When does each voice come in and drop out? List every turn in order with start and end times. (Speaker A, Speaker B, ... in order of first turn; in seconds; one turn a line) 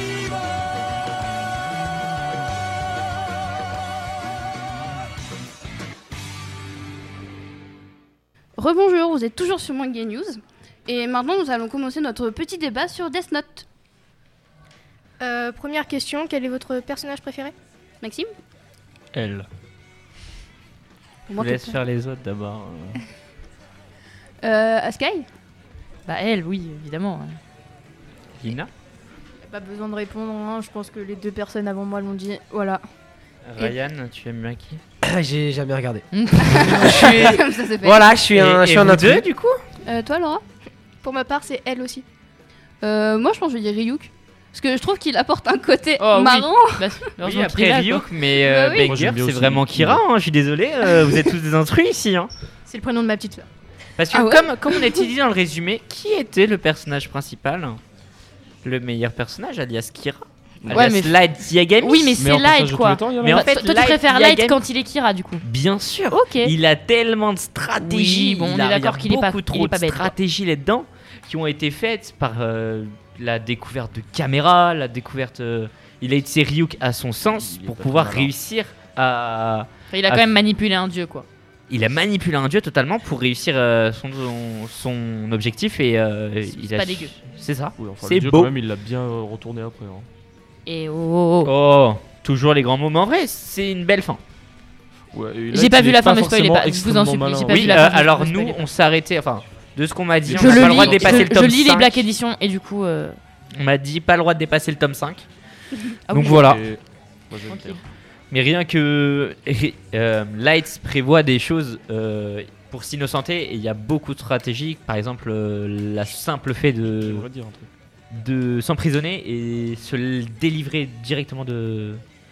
Speaker A: 8.6-13.7
Speaker B: 15.2-17.5
Speaker A: 18.0-18.3
Speaker C: 19.1-19.5
Speaker A: 21.3-21.8
Speaker C: 21.4-23.0
Speaker A: 24.4-25.3
Speaker D: 26.1-27.4
Speaker C: 28.4-28.7
Speaker E: 29.5-32.9
Speaker C: 33.4-34.8
Speaker F: 35.0-39.3
Speaker D: 36.1-37.0
Speaker A: 36.4-38.2
Speaker C: 36.9-37.4
Speaker C: 38.2-39.6
Speaker A: 39.9-40.4
Speaker B: 41.0-42.0
Speaker A: 42.8-47.1
Speaker D: 46.0-48.1
Speaker C: 47.2-52.3
Speaker A: 48.3-49.0
Speaker G: 48.8-50.0
Speaker A: 51.0-51.2
Speaker E: 52.7-53.5
Speaker C: 54.0-57.8
Speaker A: 54.1-55.1
Speaker C: 58.6-62.2
Speaker G: 60.6-60.9
Speaker D: 60.7-65.5
Speaker G: 62.2-63.4
Speaker C: 63.2-64.6
Speaker C: 65.4-80.3
Speaker D: 66.1-66.5
Speaker D: 67.8-70.1
Speaker G: 77.3-78.3
Speaker D: 79.9-81.3
Speaker C: 81.7-88.5
Speaker D: 86.5-87.2
Speaker G: 87.8-90.1
Speaker D: 90.7-91.5
Speaker C: 91.5-94.2
Speaker G: 95.1-97.8
Speaker D: 95.5-98.6
Speaker C: 97.5-102.0
Speaker G: 100.3-101.2
Speaker D: 100.4-103.2
Speaker C: 103.5-105.3
Speaker D: 106.1-106.5
Speaker C: 106.1-106.6
Speaker G: 106.5-107.8
Speaker D: 107.5-107.8
Speaker C: 108.3-117.3
Speaker G: 116.8-117.7
Speaker C: 118.1-122.0